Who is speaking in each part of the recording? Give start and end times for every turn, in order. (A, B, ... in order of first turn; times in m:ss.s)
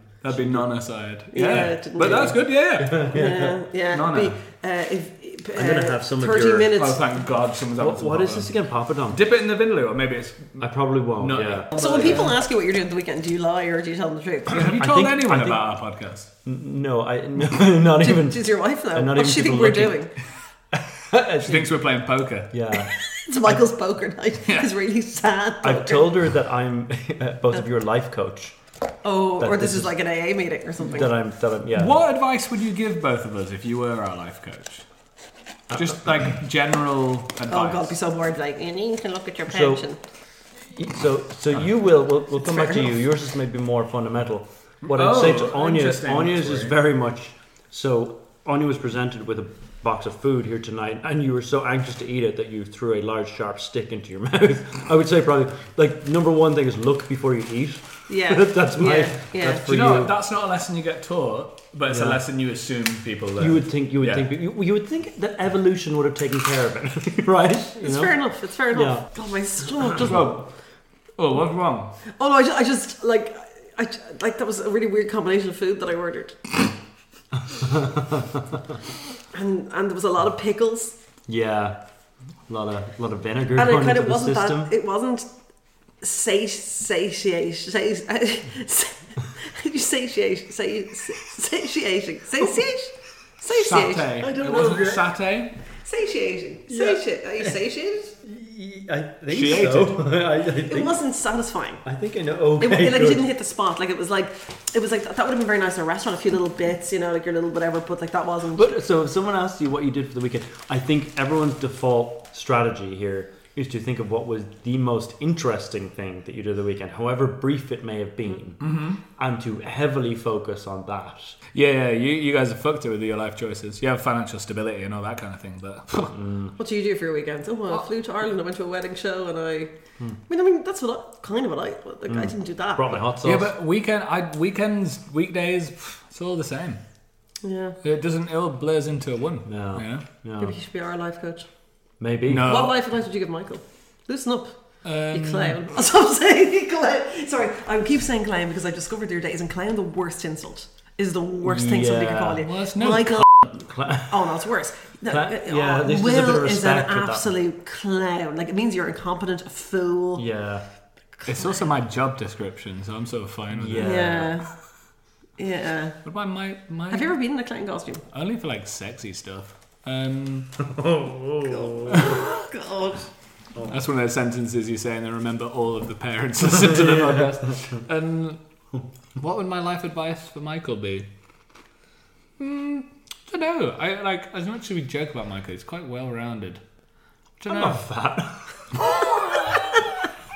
0:00.2-0:03.2 A
0:00.3-0:00.6 B
0:01.3-0:02.4 C
0:02.1-0:03.6 B
0:02.9-0:07.0 C
0:03.9-0:04.4 A
0:05.6-0:06.8 B
0:06.7-0:08.5 A
0:07.8-0:09.2 B
0:09.1-0:12.3 A
0:10.6-0:12.2 B
0:11.7-0:14.6 C
0:14.5-0:16.3 A
0:14.5-0:15.6 B
0:16.4-0:20.1 B
0:18.0-0:20.1 C
0:20.7-0:21.8 B
0:21.4-0:22.5 A
0:22.5-0:22.9 B
0:22.9-0:26.1 C
0:25.6-0:28.6 B
0:29.0-0:31.1 C
0:29.4-0:30.0 B
0:30.8-0:32.0 B
0:31.7-0:34.8 A
0:35.7-0:36.0 B
0:35.7-0:38.0 A
0:37.5-0:40.0 C
0:39.5-0:39.8 B
0:40.7-1:00.1 B
0:42.4-0:42.9 C
0:44.8-0:46.8 A
0:58.1-0:59.6 C
0:59.6-1:04.3 A
1:01.9-1:02.2 B
1:03.4-1:08.2 B
1:07.8-1:10.3 C
1:08.7-1:09.1 B
1:10.0-1:10.5 A
1:11.2-1:11.9 A
1:12.2-1:16.4 C
1:17.5-1:18.5 B
1:19.3-1:20.9 C
1:21.3-1:21.8 B
1:22.5-1:24.7 B
1:23.5-1:25.3 C
1:26.0-1:34.1 C
1:33.5-1:35.5 A
1:34.2-1:35.0 B
1:35.8-1:38.1 C
1:36.7-1:37.5 B
1:38.2-1:41.0 B
1:39.3-1:40.0 A
1:40.6-1:41.8 C
1:41.8-1:43.3 B
1:42.6-1:48.8 C
1:48.5-2:01.4 B
1:58.6-1:59.0 A
2:01.5-2:06.1 A
2:06.1-2:06.5 B
2:06.6-2:09.7 C
2:10.3-2:13.0 C
2:12.1-2:13.5 B
2:13.2-2:16.8 A
2:17.4-2:17.8 C
2:17.8-2:20.0 A
2:19.4-2:20.6 B
2:20.4-2:21.5 C
2:22.0-2:22.6 B
2:22.3-2:22.8 A
2:22.4-2:24.5 C
2:24.8-2:25.6 A
2:25.1-2:33.2 C
2:31.4-2:34.3 B
2:32.4-2:33.2 A
2:34.1-2:40.2 C
2:35.1-2:37.3 B
2:40.1-2:40.6 B
2:41.2-2:41.5 C
2:41.3-2:44.2 A
2:43.5-2:44.4 B
2:43.8-2:44.5 C
2:45.4-2:46.0 C
2:46.0-2:47.2 A
2:46.9-2:48.0 C
2:48.1-2:50.5 A
2:50.6-2:52.2 B
2:51.5-2:53.0 C
2:53.7-2:58.4 A
2:59.2-3:01.0 A
3:02.4-3:06.6 A
3:07.4-3:07.8 A
3:07.5-3:08.6 B